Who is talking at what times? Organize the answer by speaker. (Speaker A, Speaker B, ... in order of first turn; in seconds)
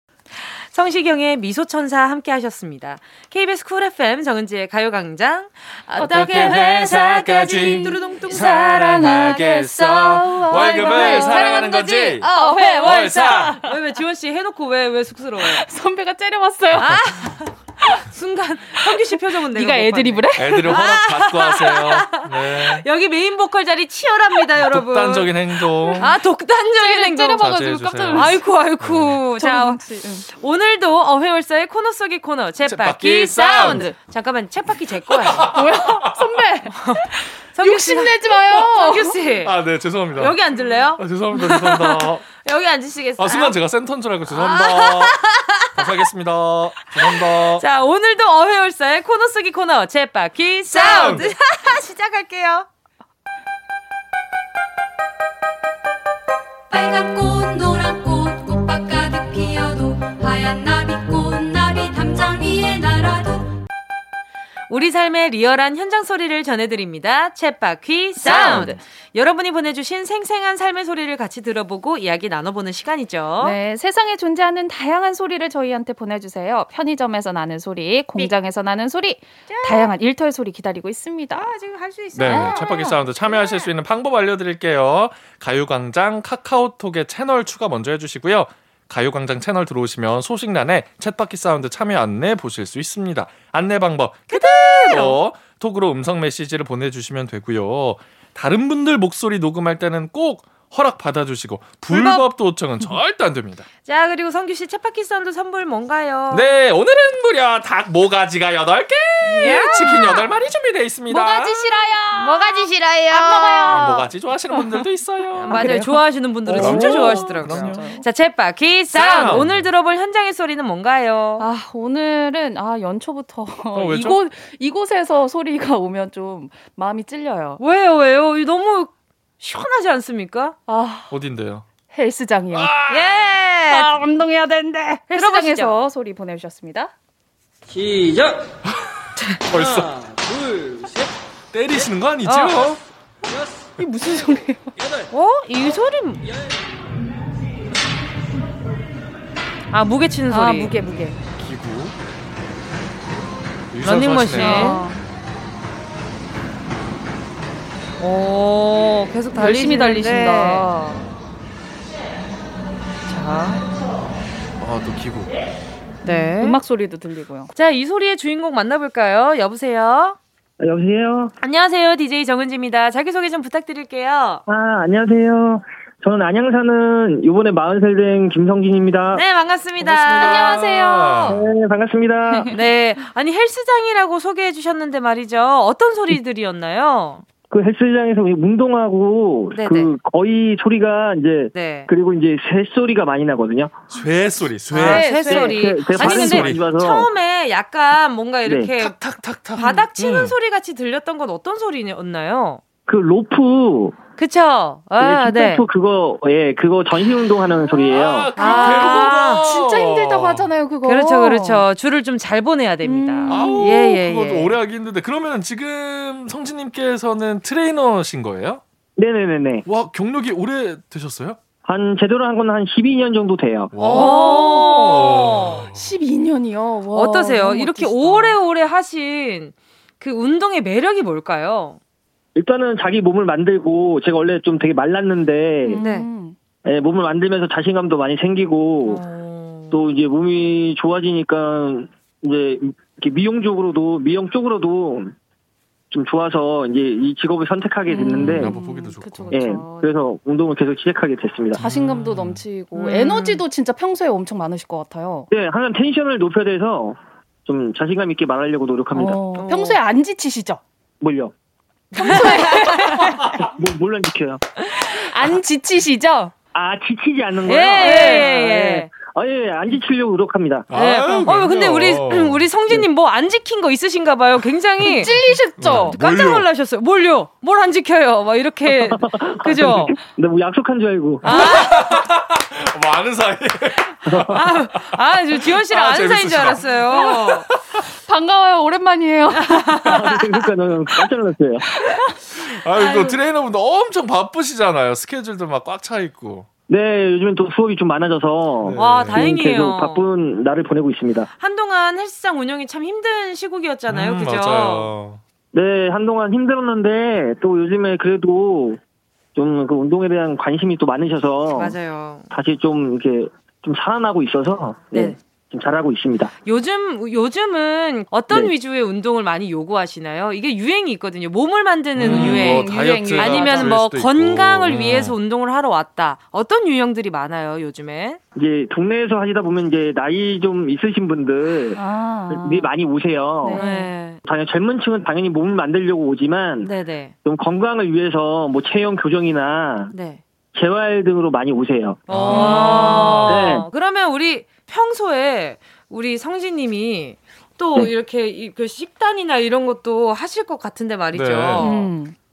Speaker A: 0.4-15.7, 16.7-25.5, 26.0-27.5, 28.1-35.6, 36.7-39.6, 40.1-43.6, 44.3-45.9, 47.0-52.7, 64.7-73.6, 79.5-79.9, 81.3-83.7, 94.3-95.2, 101.9-102.3, 103.9-106.5, 109.2-110.2, 112.2-114.0, 115.4-121.5, 127.6-130.6, 132.9-134.1, 134.6-135.8, 142.2-142.7, 145.1-146.2, 149.7-150.7, 153.8-154.9, 158.0-160.7, 163.1-163.6, 166.1-166.6, 167.5-170.2, 171.4-174.4, 179.1-181.3, 182.5-187.2, 189.5-189.9, 191.5-191.9, 194.7-199.0, 199.5-202.6, 204.2-205.6, 208.4-209.5, 210.8-214.6, 223.8-225.6, 226.9-231.8, 235.7-236.1, 238.8-239.8, 252.8-253.4, 259.4-259.8, 262.0-263.2, 267.5-268.9, 270.7-280.0, 281.2-282.0, 284.3-287.5, 289.3-290.1, 292.8-293.2, 298.8-300.1, 301.4-304.9, 311.5-312.3, 314.9-315.2, 316.4-328.2, 333.5-334.2, 336.6-337.1, 339.9-340.2, 342.1-351.9
Speaker B: 6.0-13.7, 15.4-17.3, 18.9-20.8, 26.8-28.5, 29.4-30.3, 33.6-33.9, 35.5-39.2, 68.2-68.8, 73.4-81.5, 82.2-83.0, 109.4-110.2, 111.1-114.9, 115.6-115.9, 116.5-118.0, 121.4-127.6, 130.7-131.1, 131.9-132.8, 133.7-136.9, 143.8-144.7, 150.3-151.2, 154.3-155.0, 159.3-161.1, 166.1-167.5, 180.1-181.4, 194.8-195.8, 208.4-211.7, 212.8-213.7, 223.8-225.1, 225.7-228.4, 235.6-236.4, 247.9-249.9, 251.6-255.3, 258.9-260.6, 261.9-263.2, 264.8-266.3, 267.8-268.3, 274.8-276.0, 288.1-290.0, 291.8-292.2, 322.1-323.8, 331.8-332.7, 333.4-333.9, 342.3-343.2, 351.6-352.1
Speaker C: 6.0-12.3, 12.8-13.6, 20.4-22.9, 24.6-26.2, 27.4-29.2, 32.6-33.9, 35.1-36.2, 39.4-40.4, 41.0-42.2, 43.2-45.2, 45.8-47.6, 50.7-51.3, 68.3-68.7, 82.2-103.7, 106.3-111.7, 113.6-115.8, 116.5-118.0, 118.9-119.7, 123.7-124.2, 131.1-131.7, 132.5-133.2, 139.5-140.0, 141.5-142.8, 151.3-151.9, 153.7-154.9, 164.6-165.3, 179.8-181.3, 193.9-195.2, 195.9-196.6, 198.8-200.3, 207.7-210.5, 213.3-218.6, 219.7-221.4, 223.7-225.8, 248.1-249.6, 251.6-252.4, 270.7-272.5, 275.6-276.5, 281.2-284.4, 285.6-287.6, 292.4-296.5, 298.6-299.3, 303.9-305.2, 322.0-325.1, 342.1-343.6, 351.1-351.8
Speaker D: 56.7-63.6
Speaker E: 170.6-171.3, 174.5-179.2, 181.3-182.5, 187.5-193.8, 195.3-197.1, 198.5-198.7, 202.9-204.0, 205.0-208.4, 219.0-219.6, 221.6-223.7, 232.3-235.8, 236.7-239.0, 239.7-245.2, 245.9-248.5, 249.3-251.6, 255.3-259.2, 261.0-261.3, 263.4-264.5, 266.5-270.7, 278.7-281.2, 289.9-291.6, 296.7-301.3, 305.5-308.8, 309.4-311.8, 312.3-316.3, 328.4-331.8, 332.3-333.6, 334.2-336.7, 337.2-339.9, 340.6-342.0, 343.2-343.7